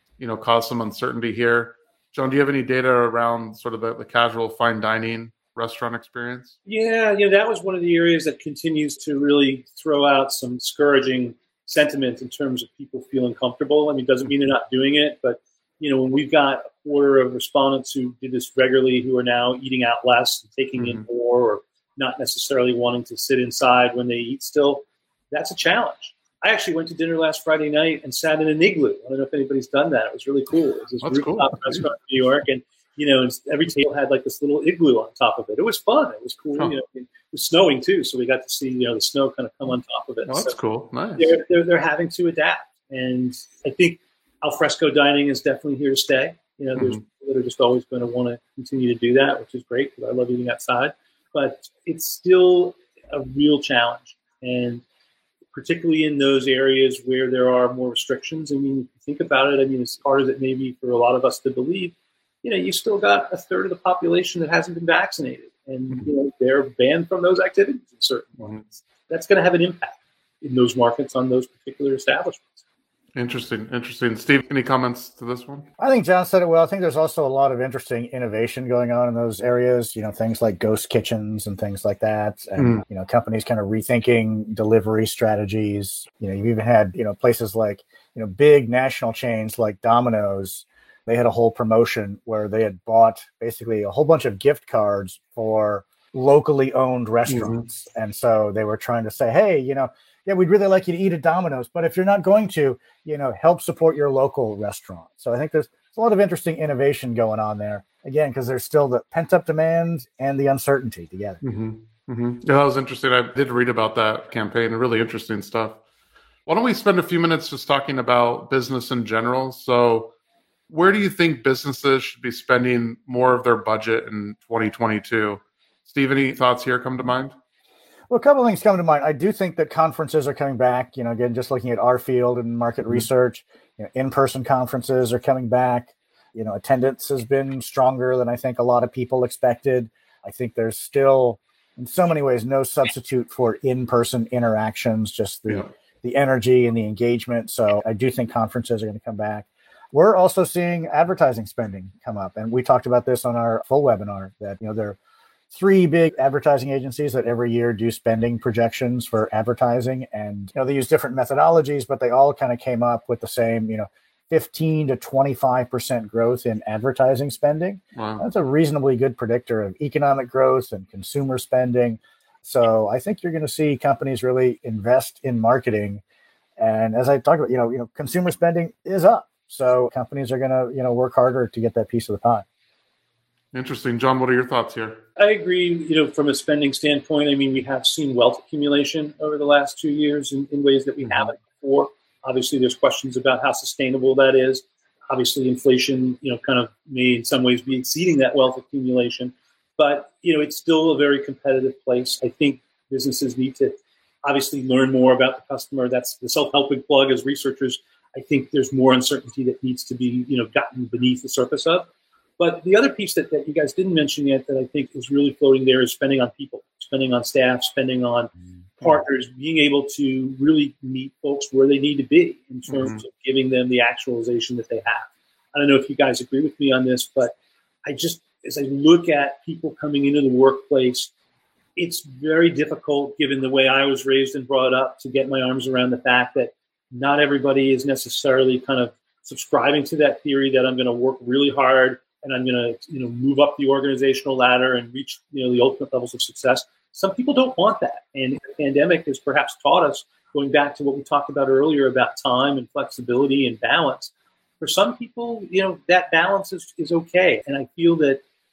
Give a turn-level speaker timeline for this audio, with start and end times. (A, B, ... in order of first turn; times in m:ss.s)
0:00.2-0:06.6 A
0:06.6-0:40.6 B
0:20.8-0:21.0 A
0:31.0-0:31.8 A
0:40.3-0:41.3 A
0:41.2-0:54.8 B
0:55.5-1:12.6 B
1:13.2-1:15.7 A
1:15.8-1:51.4 C
1:22.6-1:22.8 A
1:37.3-1:37.6 A
1:51.4-1:55.8 A
1:56.5-2:00.1 A
2:00.7-2:07.3 A
2:08.1-2:35.0 C
2:35.5-2:56.0 C
2:48.0-2:48.2 A
2:56.6-3:02.4 C
3:03.5-3:05.0 A
3:05.2-3:31.9 B
3:32.4-3:51.1 B
3:42.7-3:43.0 A
3:51.8-4:18.2 B